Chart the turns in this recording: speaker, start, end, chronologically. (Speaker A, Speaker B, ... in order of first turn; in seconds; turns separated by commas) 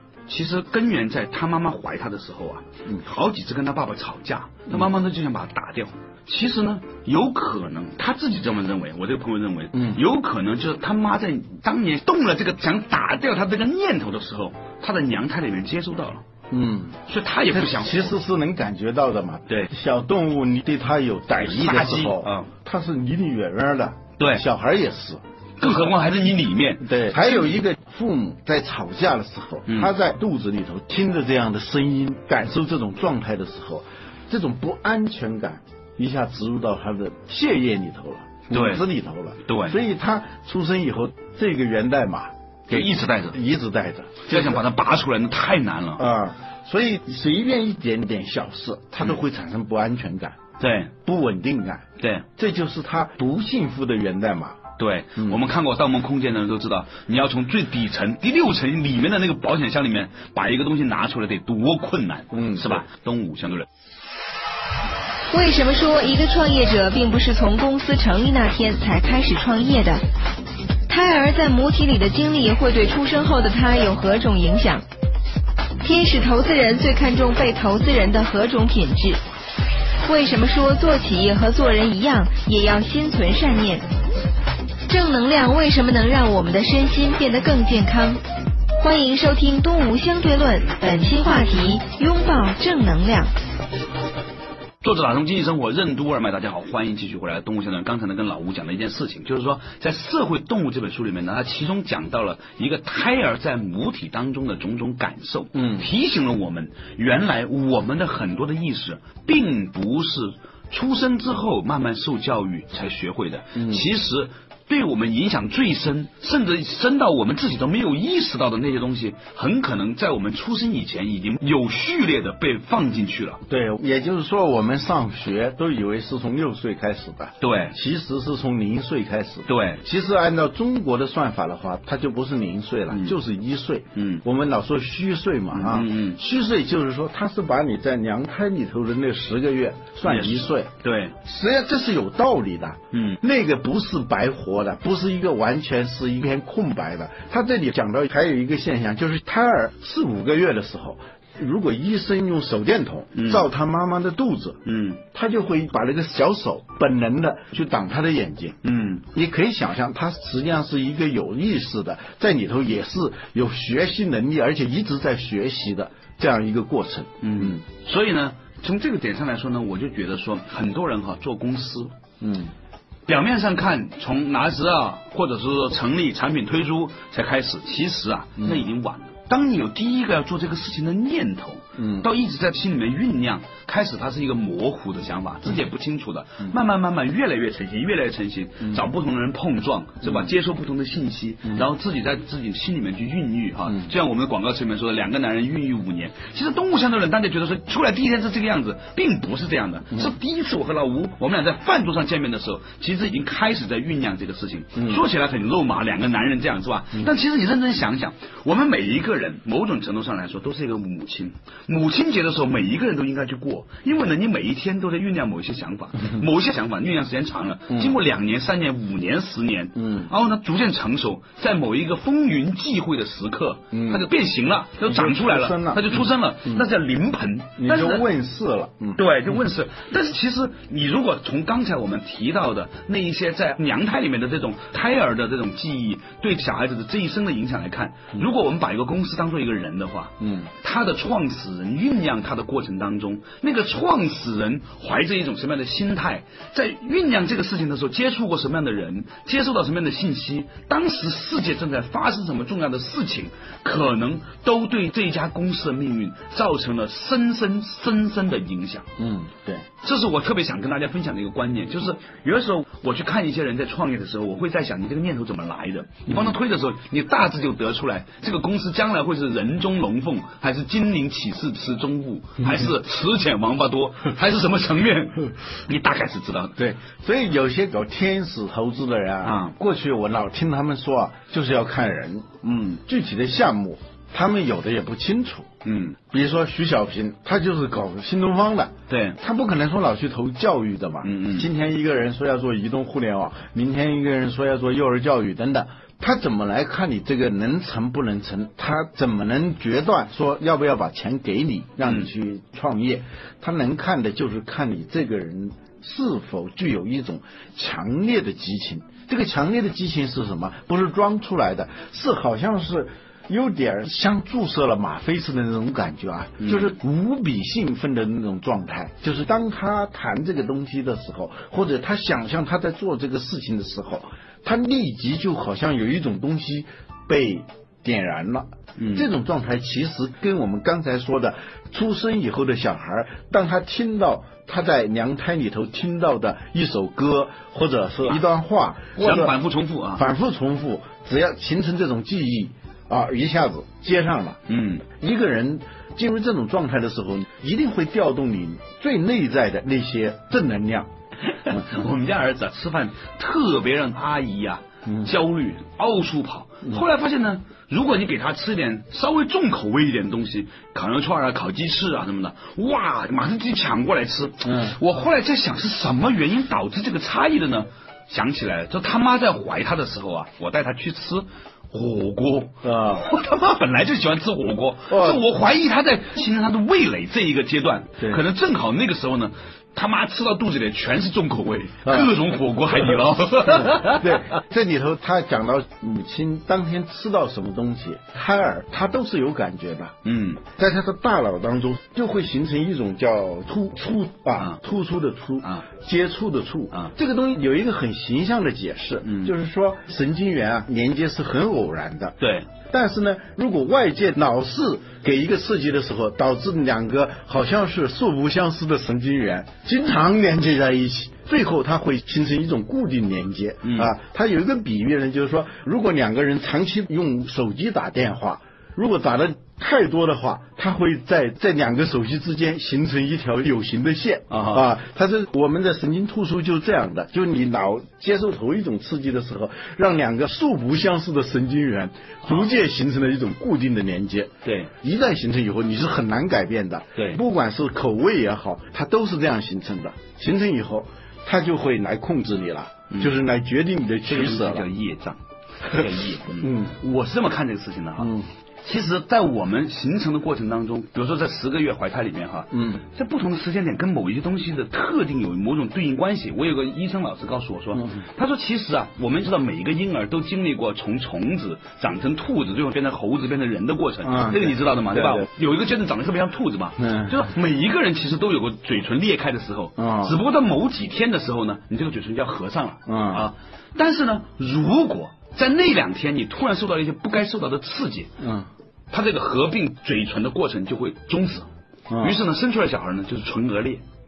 Speaker A: 0.3-16.2, Speaker B: 9.7-10.0, Speaker B: 16.5-25.9, Speaker A: 17.1-18.2, Speaker A: 21.4-22.5, Speaker A: 24.2-24.4, Speaker A: 25.6-27.5, Speaker B: 26.8-44.6, Speaker A: 38.5-38.8, Speaker A: 39.5-39.8, Speaker A: 42.7-43.4, Speaker A: 44.3-46.1, Speaker B: 46.0-50.4, Speaker A: 50.6-50.9, Speaker B: 51.0-54.6, Speaker A: 52.0-52.3, Speaker A: 54.8-63.7, Speaker B: 62.3-62.8, Speaker C: 65.3-70.0, Speaker C: 70.9-74.8, Speaker C: 75.8-79.2, Speaker C: 80.0-83.8, Speaker C: 84.9-88.2, Speaker C: 88.8-93.3, Speaker A: 94.8-123.4, Speaker B: 105.5-105.9, Speaker B: 113.6-113.8, Speaker B: 123.5-158.6, Speaker A: 127.4-127.8, Speaker A: 129.5-129.8, Speaker A: 132.9-133.2, Speaker A: 134.0-134.2, Speaker A: 135.5-136.2, Speaker A: 140.0-141.2, Speaker A: 142.9-143.2, Speaker A: 153.2-153.5, Speaker A: 154.7-155.0, Speaker A: 158.6-159.1, Speaker B: 159.1-167.6, Speaker A: 167.2-171.9, Speaker B: 172.2-172.5, Speaker A: 173.1-228.1, Speaker B: 178.4-178.7, Speaker B: 181.8-182.1, Speaker B: 190.0-190.3, Speaker B: 204.8-205.0, Speaker B: 219.8-220.1, Speaker B: 223.7-224.1, Speaker B: 224.8-226.7, Speaker B: 227.6-229.0, Speaker A: 229.0-258.9, Speaker B: 240.2-240.5, Speaker B: 259.0-259.7, Speaker A: 259.8-276.6, Speaker B: 266.1-266.4, Speaker B: 276.6-285.5, Speaker A: 279.2-279.5, Speaker A: 285.6-286.0, Speaker B: 286.1-339.4, Speaker A: 288.9-289.2, Speaker A: 291.0-291.5, Speaker A: 316.4-316.7, Speaker A: 328.8-329.1, Speaker A: 339.0-340.1, Speaker B: 340.0-350.9, Speaker A: 344.5-344.9, Speaker A: 351.3-384.2, Speaker B: 354.9-355.1, Speaker B: 364.4-364.8, Speaker B: 372.6-373.1, Speaker B: 374.9-375.2, Speaker B: 381.9-382.1, Speaker B: 383.5-444.7, Speaker A: 390.1-390.4, Speaker A: 399.0-399.3, Speaker A: 402.2-402.5, Speaker A: 413.6-413.9, Speaker A: 424.3-424.7, Speaker A: 434.4-434.7, Speaker A: 444.1-478.1, Speaker B: 446.4-446.8, Speaker B: 448.0-448.3, Speaker B: 452.5-452.8, Speaker B: 457.8-458.0, Speaker B: 464.0-465.3, Speaker B: 466.8-467.2, Speaker B: 469.8-470.2, Speaker B: 472.9-473.3, Speaker B: 478.2-478.5, Speaker A: 478.9-481.5, Speaker B: 481.9-482.2, Speaker A: 482.0-483.8